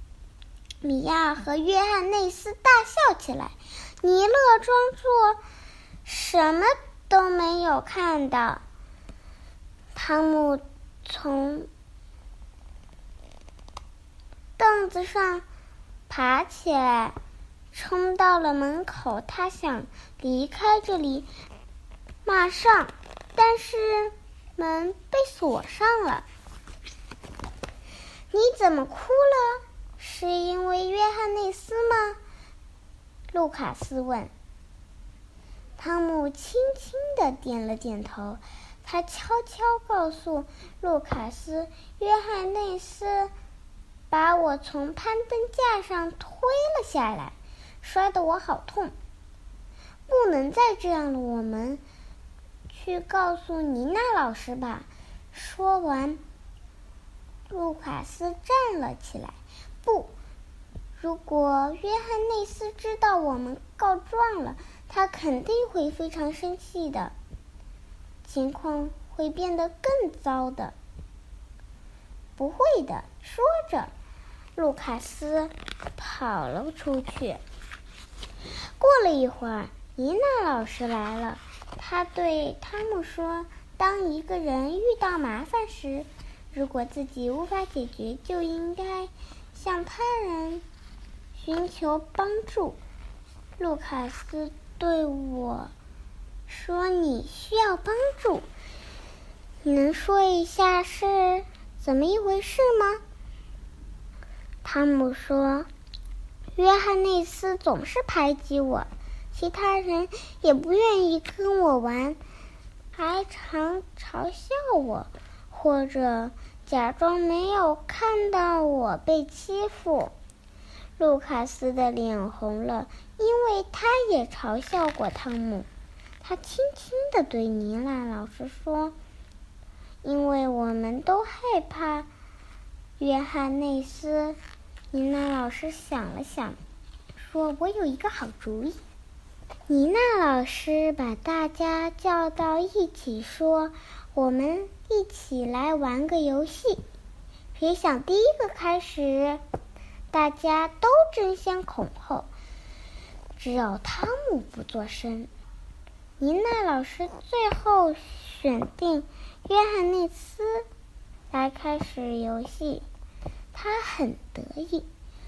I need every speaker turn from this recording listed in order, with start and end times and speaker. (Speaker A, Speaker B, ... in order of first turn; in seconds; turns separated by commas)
Speaker A: 0.8-5.4, Speaker A: 6.0-8.6, Speaker A: 9.9-11.7, Speaker A: 14.6-15.4, Speaker A: 16.1-17.1, Speaker A: 17.7-21.3, Speaker A: 22.2-26.2, Speaker A: 28.3-32.2, Speaker A: 33.3-34.3, Speaker A: 35.8-43.3, Speaker A: 44.1-48.9, Speaker A: 50.1-51.8, Speaker A: 52.7-56.2, Speaker A: 57.5-60.1, Speaker A: 61.0-67.1, Speaker A: 68.2-70.7, Speaker A: 72.4-73.9, Speaker A: 74.5-77.4, Speaker A: 78.8-90.6, Speaker A: 91.3-92.8, Speaker A: 93.6-95.7, Speaker A: 96.5-98.5, Speaker A: 99.6-103.0, Speaker A: 104.6-105.7, Speaker A: 106.5-112.2, Speaker A: 112.9-120.1, Speaker A: 121.0-125.7, Speaker A: 126.2-128.9, Speaker A: 130.0-132.1, Speaker A: 133.0-134.4, Speaker A: 134.9-136.6, Speaker A: 137.2-138.8, Speaker A: 139.7-146.8, Speaker A: 147.5-149.4, Speaker A: 150.1-152.3, Speaker A: 153.4-155.3, Speaker A: 156.2-160.7, Speaker A: 161.3-162.8, Speaker A: 163.5-164.8